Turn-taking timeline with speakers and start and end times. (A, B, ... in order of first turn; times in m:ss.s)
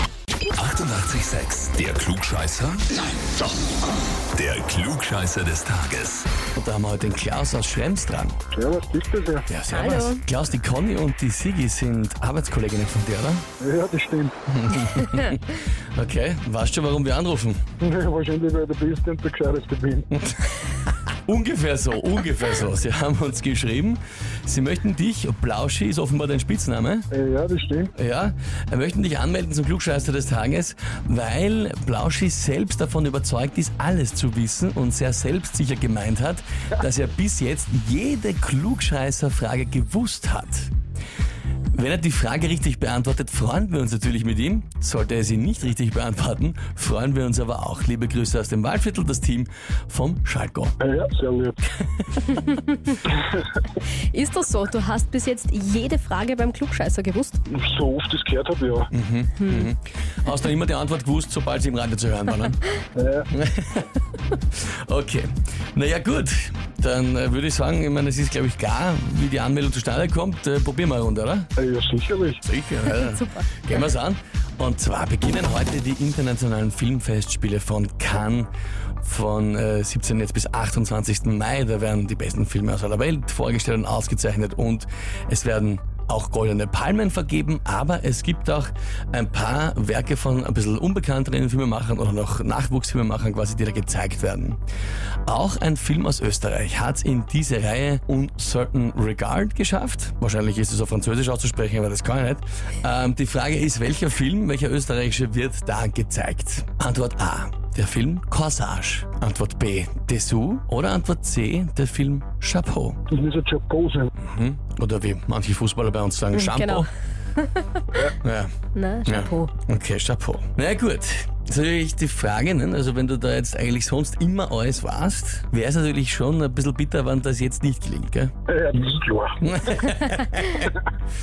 0:00.5-0:02.8 A
0:04.3-0:06.3 A
0:06.5-0:08.4 B
0:08.5-0:09.4 C
0:09.5-0:13.4 B
0:09.7-0:10.2 D
0:13.6-0:14.3 C
0:14.5-0:17.6 B
0:17.8-0:20.1 C
0:20.1-0:20.4 B
0:21.1-0:27.1 B
0:27.1-0:27.9 C
0:28.0-0:40.7 B
0:41.7-0:50.7 B
0:50.8-0:51.6 C
0:52.0-0:52.4 B
0:54.1-0:57.4 D
0:57.5-0:58.9 C
0:58.9-1:02.6 B
1:02.9-1:03.3 C
1:03.3-1:11.5 B
1:11.6-1:12.4 C
1:12.4-1:18.5 B
1:12.9-1:13.5 D
1:19.0-1:34.6 B
1:35.2-1:53.0 B
1:53.1-1:54.1 C
1:54.2-1:56.9 B
1:56.3-1:56.8 D
1:57.4-1:57.8 D
1:58.2-1:58.5 B
1:58.7-1:59.5 D
1:59.0-2:08.3 B
2:08.5-2:09.4 C
2:09.4-2:10.7 B